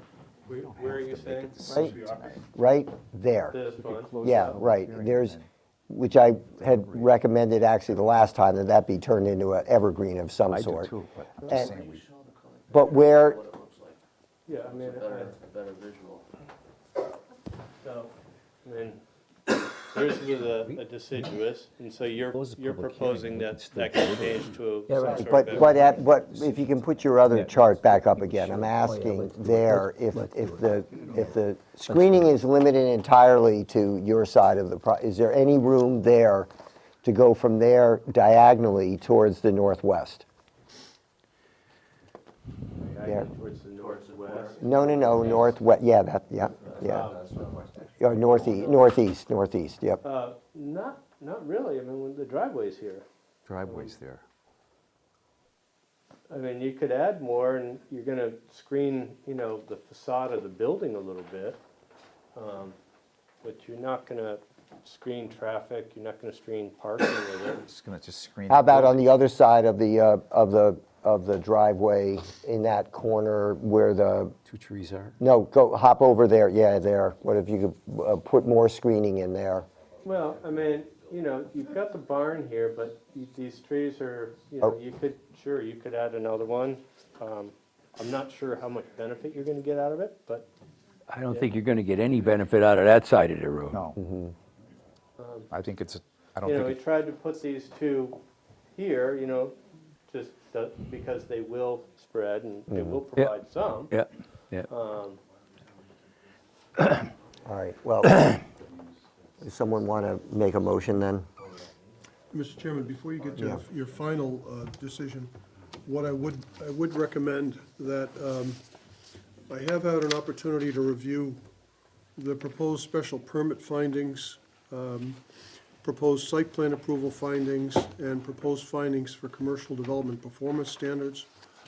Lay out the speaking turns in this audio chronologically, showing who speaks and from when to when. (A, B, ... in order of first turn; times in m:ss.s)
0:00.5-0:02.2 A
0:00.6-0:02.4 B
0:01.7-0:02.0 C
0:02.5-0:03.6 C
0:03.5-0:04.6 A
0:04.1-0:05.4 B
0:04.2-0:10.9 C
0:06.6-0:07.1 B
0:10.5-0:12.1 B
0:11.4-0:11.7 C
0:11.7-0:14.0 D
0:12.7-0:13.5 C
0:14.4-0:15.4 A
0:14.7-0:16.2 D
0:17.8-0:18.1 A
0:18.6-0:26.0 A
0:22.5-0:26.7 D
0:25.1-0:36.5 C
0:27.3-0:31.4 D
0:31.9-0:32.3 D
0:37.0-0:40.2 C
0:42.8-0:45.5 A
0:43.8-0:44.6 D
0:44.6-0:47.1 C
0:45.2-0:45.4 D
0:46.8-0:47.3 A
0:47.0-0:47.7 D
0:48.0-0:50.0 C
0:48.1-0:48.9 A
0:50.0-0:53.0 A
0:53.6-0:54.0 A
0:56.3-1:01.6 A
1:02.3-1:02.8 A
1:03.4-1:07.7 A
1:07.6-1:09.0 B
1:08.5-1:14.3 C
1:14.5-1:15.1 E
1:15.2-1:19.7 C
1:20.0-1:30.5 A
1:31.1-1:33.8 E
1:33.7-1:34.0 B
1:34.0-1:34.3 C
1:35.2-1:35.5 A
1:35.5-1:36.8 B
1:36.4-1:38.2 A
1:38.8-1:44.0 A
1:42.7-1:43.0 C
1:43.9-1:44.7 E
1:44.7-1:45.2 A
1:47.4-1:48.3 C
1:49.4-1:51.3 C
1:52.3-1:58.6 F
1:53.4-1:53.6 C
1:59.5-2:01.4 F
2:02.2-2:05.2 F
2:05.8-2:11.3 F